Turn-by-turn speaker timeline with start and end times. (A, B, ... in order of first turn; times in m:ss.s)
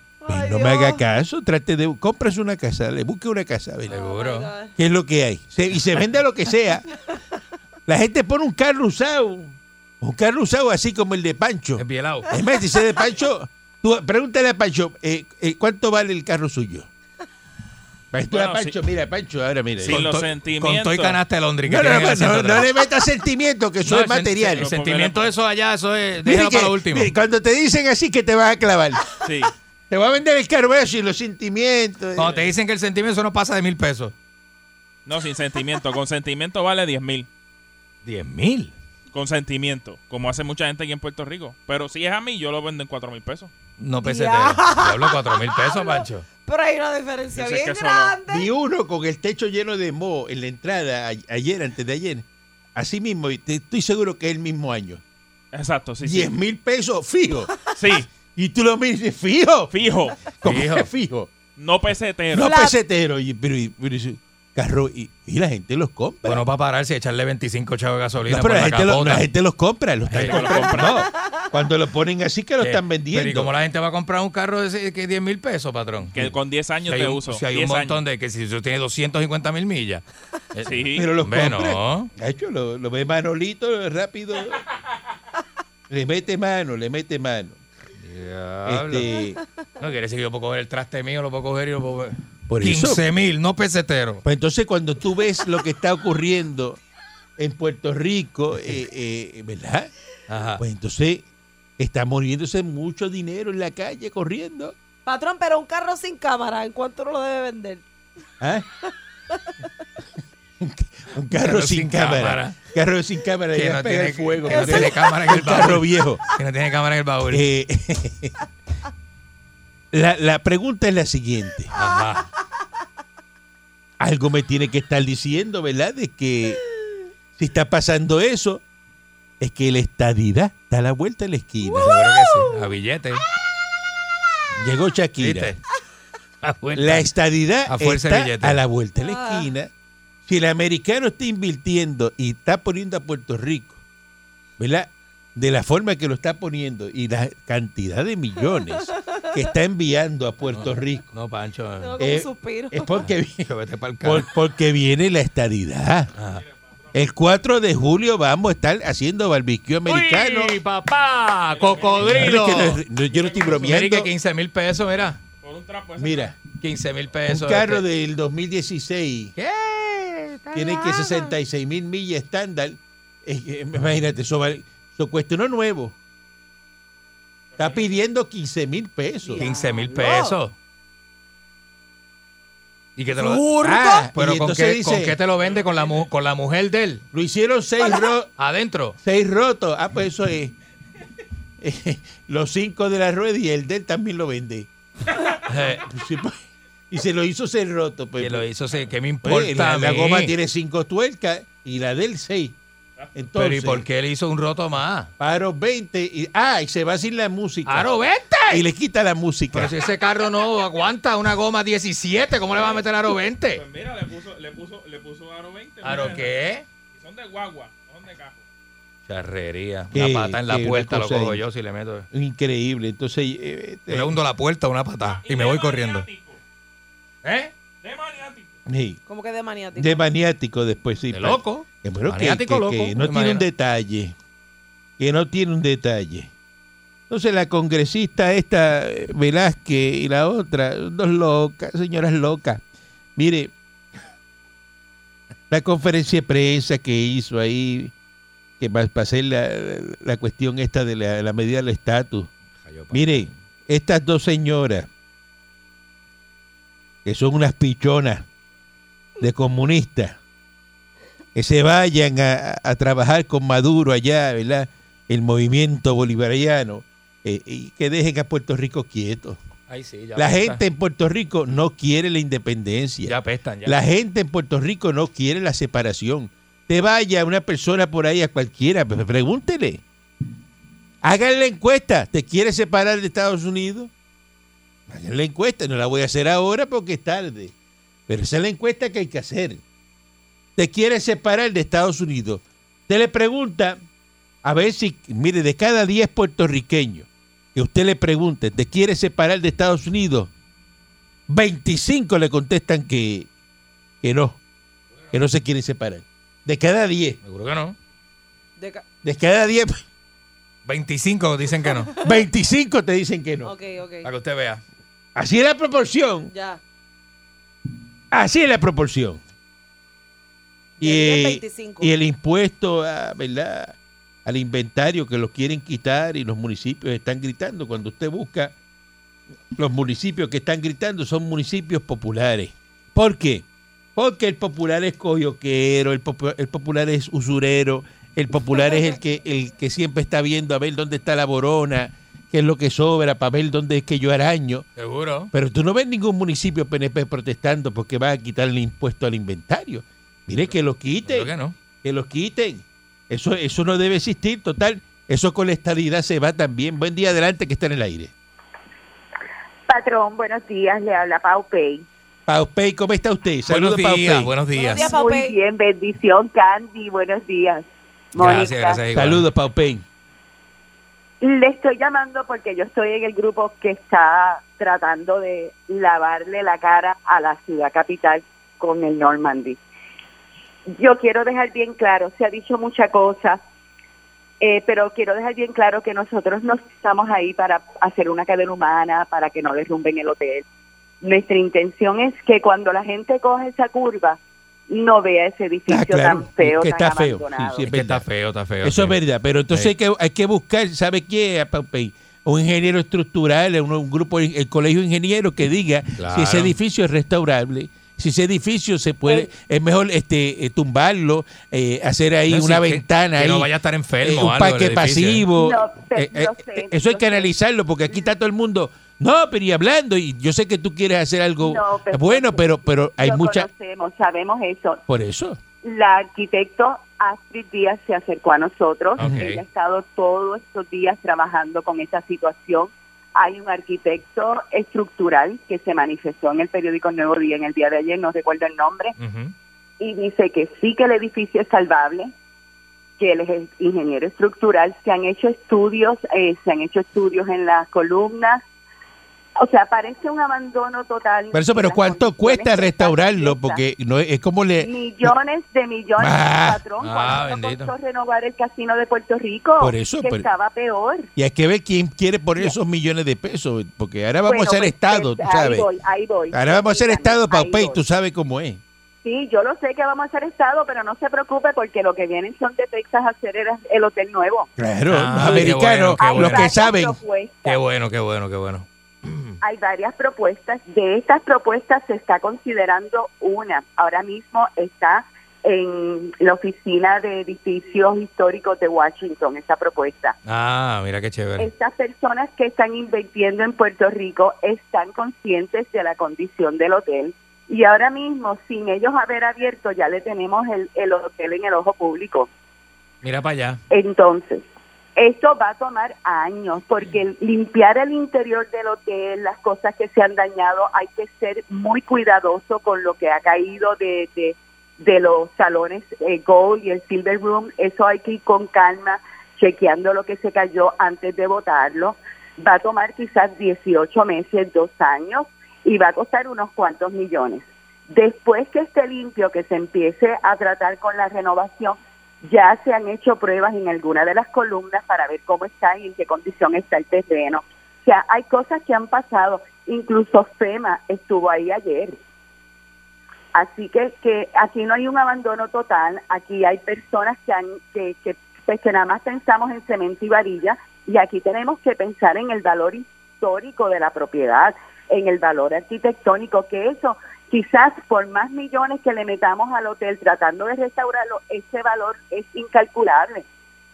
0:00.2-0:01.0 A
0:00.3-0:04.0 B
0:03.9-0:04.7 A
0:03.9-0:04.5 C
0:04.8-0:06.9 B
0:07.9-0:16.9 B
0:11.8-0:12.3 C
0:18.1-0:20.0 B
0:18.3-0:18.7 D
0:19.8-0:21.2 D
0:19.8-0:22.7 C
0:21.6-0:24.7 B
0:23.8-0:27.1 C
0:24.5-0:25.3 D
0:26.2-0:29.1 B
0:29.2-0:29.5 D
0:29.9-0:32.5 B
0:32.2-0:34.1 C
0:35.1-0:37.3 D
0:38.0-0:38.7 C
0:39.1-0:43.5 D
0:43.8-0:46.3 C
0:44.0-0:48.5 A
0:47.4-0:48.2 D
0:48.3-0:55.0 B
0:55.5-0:56.3 D
0:56.0-0:59.7 B
0:57.8-0:58.1 D
0:59.7-1:00.2 D
1:00.3-1:01.3 B
1:00.4-1:00.9 C
1:01.6-1:02.5 D
1:02.3-1:06.4 B
1:02.4-1:02.8 A
1:06.2-1:09.3 C
1:08.3-1:13.5 B
1:10.1-1:10.6 C
1:10.3-1:11.0 D
1:11.0-1:11.5 A
1:12.6-1:16.2 C
1:16.1-1:18.0 D
1:16.8-1:22.1 C
1:20.7-1:21.1 D
1:20.9-1:24.6 B
1:25.9-1:27.6 B
1:28.0-1:29.1 C
1:28.7-1:29.4 B
1:29.8-1:34.2 C
1:32.5-1:33.0 B
1:34.2-1:36.8 B
1:37.4-1:39.9 B
1:40.3-1:40.6 C
1:40.6-1:41.2 B
1:41.8-1:44.8 B
1:45.0-1:47.8 A
1:48.4-1:48.7 B
1:50.6-1:56.2 B
1:51.3-1:52.6 C
1:53.5-1:57.4 C
1:54.5-1:55.1 A
1:57.3-1:58.4 B
1:59.9-2:01.7 B
2:01.7-2:02.3 C
2:04.0-2:06.6 B
2:07.4-2:08.6 B
2:09.4-2:12.1 B
2:11.7-2:12.6 A
2:11.8-2:13.3 C
2:14.5-2:15.6 B
2:15.2-2:15.6 C
2:16.4-2:17.1 C
2:16.8-2:19.7 B
2:17.7-2:18.6 C
2:19.0-2:19.5 A
2:20.3-2:23.8 B
2:24.6-2:31.1 B
2:30.5-2:32.0 C
2:31.8-2:32.9 A
2:32.0-2:33.5 B
2:33.4-2:34.3 C
2:34.0-2:36.1 B
2:36.2-2:36.4 C
2:36.2-2:37.0 D
2:36.9-2:40.6 B
2:39.9-2:42.8 C
2:41.5-2:42.4 D
2:42.0-2:44.1 B
2:43.0-2:43.8 D
2:43.5-2:45.2 C
2:45.4-2:46.3 D
2:46.0-2:46.4 B
2:46.6-2:47.8 C
2:47.3-2:49.4 B
2:49.4-2:51.3 C
2:50.5-2:56.0 B
2:57.5-2:57.9 D
2:57.6-2:59.5 B
2:59.2-3:00.4 A
2:59.4-3:00.6 C
3:03.0-3:07.0 C
3:03.1-3:05.2 B
3:05.4-3:06.1 D
3:07.1-3:08.3 B
3:08.4-3:09.0 C
3:09.0-3:10.6 B
3:11.6-3:14.7 B
3:15.5-3:15.8 C
3:15.5-3:18.5 B
3:18.2-3:20.4 C
3:19.2-3:22.6 B
3:23.2-3:23.9 B
3:23.4-3:25.1 C
3:25.2-3:27.9 B
3:27.7-3:28.6 C
3:28.5-3:29.7 B
3:29.5-3:33.6 C
3:33.5-3:36.3 D
3:35.8-3:36.6 C
3:36.9-3:38.4 D
3:39.1-3:42.1 C
3:39.9-3:41.4 B
3:42.1-3:44.2 B
3:43.9-3:46.1 C
3:45.0-3:46.4 D
3:47.2-3:47.5 C
3:47.8-3:48.6 D
3:48.7-3:49.0 B
3:49.1-3:50.0 A
3:49.8-3:54.2 B
3:51.1-3:53.4 C
3:55.0-3:56.3 B
3:57.1-4:02.6 B
4:03.2-4:03.5 B
4:05.5-4:07.9 B
4:08.6-4:12.3 B
4:12.6-4:13.4 C
4:12.9-4:14.9 B
4:17.0-4:18.3 B
4:19.2-4:20.2 B
4:21.4-4:29.4 B
4:29.7-4:30.6 C
4:30.2-4:39.8 B
4:33.0-4:33.8 C
4:41.0-4:43.9 B
4:44.9-4:47.5 B
4:48.1-4:49.6 B
4:50.6-4:53.8 B
4:54.4-5:00.3 B
5:01.3-5:03.3 B
5:04.0-5:04.4 B
5:05.1-5:07.2 B
5:07.2-5:07.8 C
5:08.6-5:08.8 A
5:09.0-5:09.8 B
5:10.7-5:11.9 C
5:12.0-5:13.5 B
5:13.4-5:14.1 A
5:14.0-5:14.6 C
5:15.2-5:16.3 B
5:16.3-5:16.6 A
5:18.1-5:19.2 B
5:20.8-5:21.9 A
5:20.8-5:28.5 B
5:29.6-5:44.7 B
5:44.8-5:45.3 C
5:45.3-5:51.3 B
5:51.1-5:51.6 C
5:51.8-5:58.1 B
5:59.7-6:01.8 E
6:02.3-6:04.3 B
6:03.5-6:04.9 C
6:04.6-6:05.4 A
6:04.7-6:08.8 E
6:08.2-6:09.3 C
6:08.9-6:09.8 B
6:11.2-6:19.6 E
6:20.7-6:23.4 E
6:24.4-6:30.4 E
6:31.0-6:34.2 E
6:34.7-6:37.7 E
6:35.7-6:38.1 B
6:37.7-6:39.0 C
6:38.6-6:53.5 B
6:46.0-6:46.6 C
6:52.3-6:55.3 C
6:54.0-7:03.5 B
6:55.4-6:57.3 E
7:01.4-7:04.8 E
7:04.9-7:05.4 B
7:05.6-7:19.0 E
7:09.0-7:09.4 C
7:19.0-7:19.4 C
7:19.8-7:22.1 E
7:23.0-7:28.4 E
7:29.4-7:33.6 E
7:31.3-7:35.1 B
7:34.6-7:41.1 E
7:36.0-7:36.6 B
7:36.8-7:37.7 C
7:39.6-7:40.3 B
7:41.2-7:45.7 B
7:44.3-7:47.8 E
7:46.3-7:48.6 B
7:49.0-7:54.5 E
7:54.6-7:57.0 B
7:54.9-7:56.5 C
7:56.0-7:57.6 E
7:57.4-7:59.4 C
7:59.4-8:10.2 E
8:10.3-8:11.5 C
8:11.4-8:22.3 E
8:23.0-8:23.6 C
8:23.7-8:24.4 E
8:25.0-9:02.0 E
9:03.3-9:23.2 E